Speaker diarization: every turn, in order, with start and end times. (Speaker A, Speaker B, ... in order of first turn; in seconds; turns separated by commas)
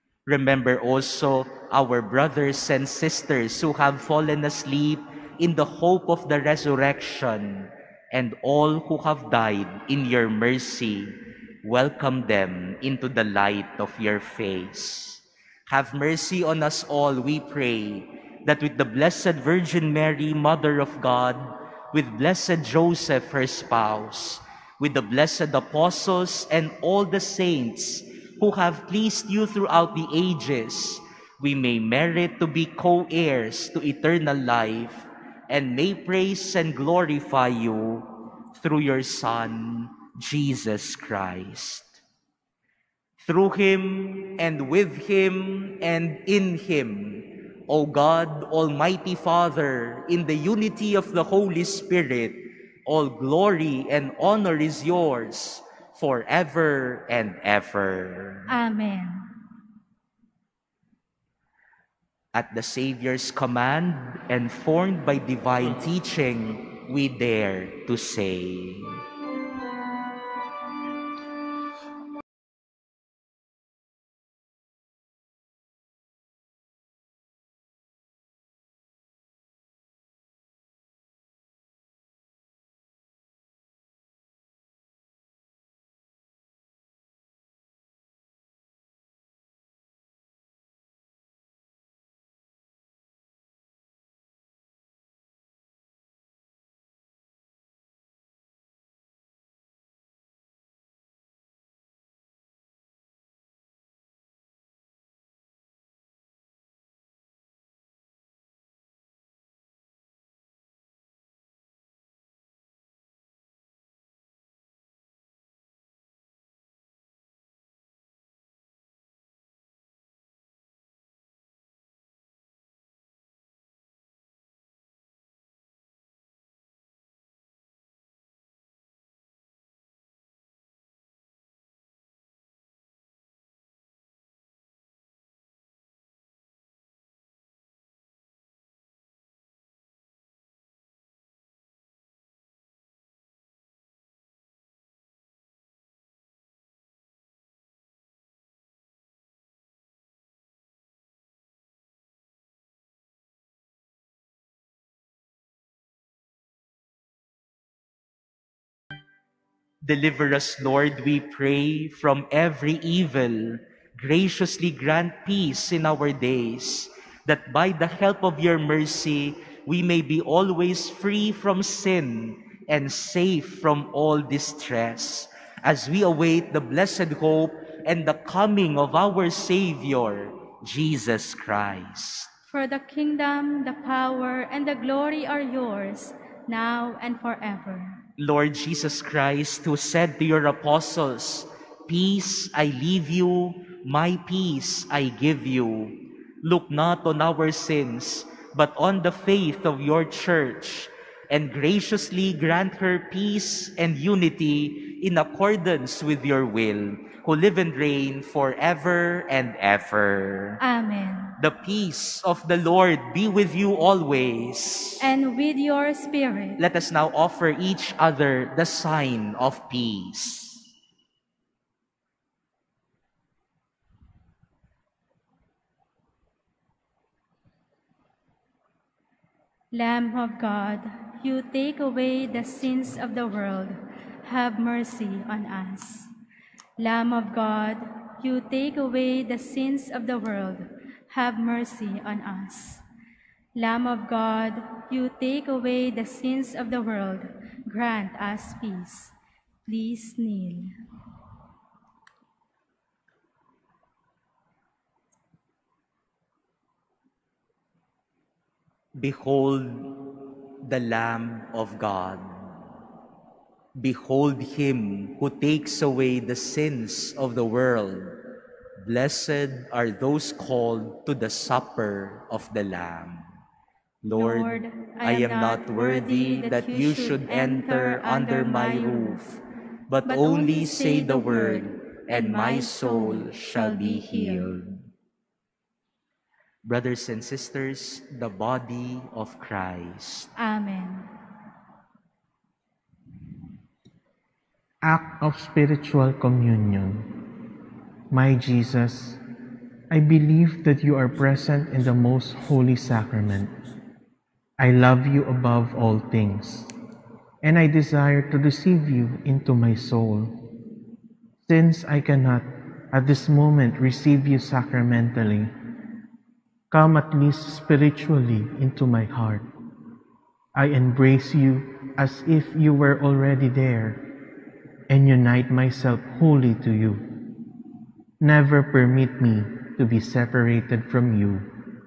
Speaker A: 0.3-42.0, Speaker A: 43.2-58.5, Speaker B: 58.5-59.3, Speaker A: 62.3-69.0, Speaker A: 159.8-182.3, Speaker B: 182.5-188.0, Speaker A: 188.2-210.6, Speaker B: 210.6-211.4, Speaker A: 211.4-215.1, Speaker B: 215.0-216.6, Speaker A: 216.6-220.7, Speaker B: 229.7-236.1, Speaker B: 236.8-242.8, Speaker B: 243.6-249.1, Speaker B: 249.7-250.7, Speaker A: 259.0-262.5, Speaker A: 263.8-268.2, Speaker A: 268.8-273.3, Speaker A: 274.0-284.8, Speaker B: 274.1-279.2, Speaker B: 280.1-284.6, Speaker A: 286.6-290.3, Speaker B: 290.4-291.1, Speaker C: 294.8-297.1, Speaker C: 298.1-299.2, Speaker C: 299.9-303.5, Speaker C: 304.6-306.7, Speaker C: 307.4-310.4, Speaker C: 311.5-315.5, Speaker C: 316.7-319.5, Speaker C: 320.6-324.0, Speaker C: 324.9-327.0, Speaker C: 328.2-331.5